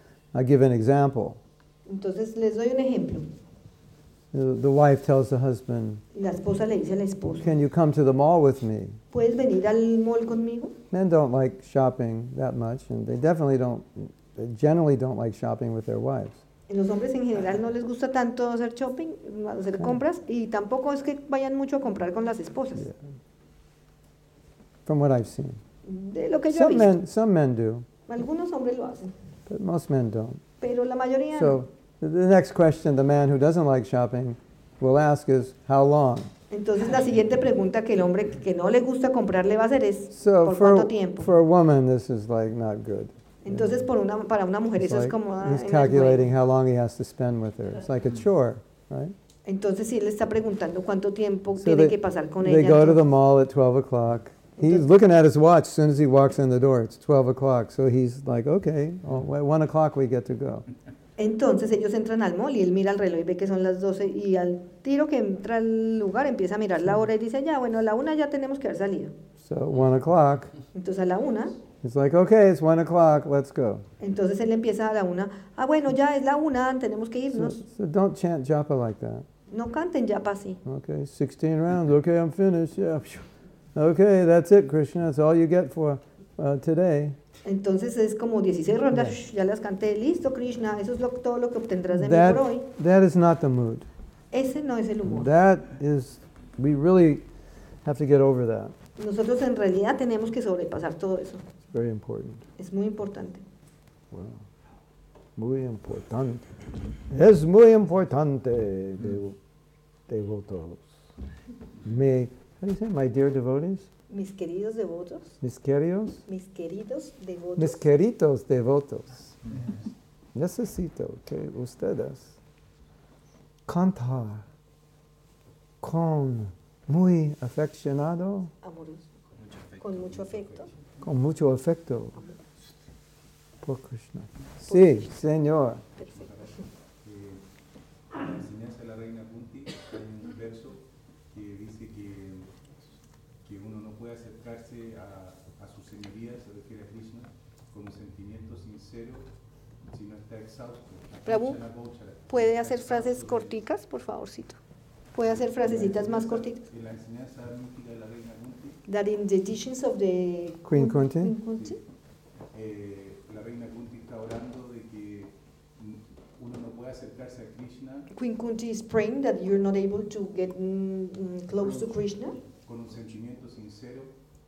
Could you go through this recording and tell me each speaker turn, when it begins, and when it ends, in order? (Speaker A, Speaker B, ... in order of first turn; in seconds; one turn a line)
Speaker A: 0.3-1.4
Speaker B: 1.9-3.3
Speaker A: 4.3-6.0
Speaker B: 6.1-7.5
Speaker A: 7.4-9.0
Speaker B: 9.1-10.8
Speaker A: 10.9-16.4
Speaker B: 16.7-22.9
Speaker A: 24.9-25.6
Speaker B: 25.9-26.9
Speaker A: 26.5-27.9
Speaker B: 28.1-29.1
Speaker A: 29.5-30.4
Speaker B: 30.6-31.6
Speaker A: 31.4-36.3
Speaker B: 36.5-41.3
Speaker A: 40.1-43.8
Speaker B: 43.4-46.3
Speaker A: 44.8-49.1
Speaker B: 49.5-53.0
Speaker A: 51.6-60.7
Speaker B: 54.6-54.8
Speaker B: 61.2-69.1
Speaker A: 69.4-70.5
Speaker B: 70.7-71.5
Speaker A: 71.8-73.8
Speaker B: 74.0-77.6
Speaker A: 77.3-79.3
Speaker B: 79.5-80.6
Speaker A: 80.7-87.2
Speaker B: 87.5-92.7
Speaker A: 91.9-93.9
Speaker B: 94.3-95.3
Speaker A: 95.1-97.2
Speaker A: 97.8-98.7
Speaker B: 99.0-101.4
Speaker A: 101.7-102.4
Speaker B: 102.6-103.4
Speaker A: 104.1-104.4
Speaker A: 105.4-106.5
Speaker A: 107.1-109.4
Speaker A: 110.1-110.9
Speaker A: 111.8-113.9
Speaker B: 114.1-115.4
Speaker A: 115.4-116.2
Speaker B: 116.3-117.8
Speaker A: 117.6-119.4
Speaker A: 120.3-122.4
Speaker A: 123.7-124.5
Speaker A: 125.8-128.5
Speaker B: 128.6-129.1
Speaker C: 129.4-130.7
Speaker B: 129.8-130.7
Speaker A: 131.0-132.2
Speaker A: 133.6-135.8
Speaker B: 134.7-135.1
Speaker C: 136.0-137.4
Speaker C: 138.1-142.5
Speaker C: 143.4-149.3
Speaker C: 149.9-153.6
Speaker B: 151.3-151.6
Speaker B: 152.3-154.6
Speaker B: 155.1-156.6
Speaker C: 155.2-158.8
Speaker B: 158.9-161.8
Speaker A: 160.7-161.3
Speaker C: 162.5-168.1
Speaker B: 168.1-172.4
Speaker C: 172.6-174.1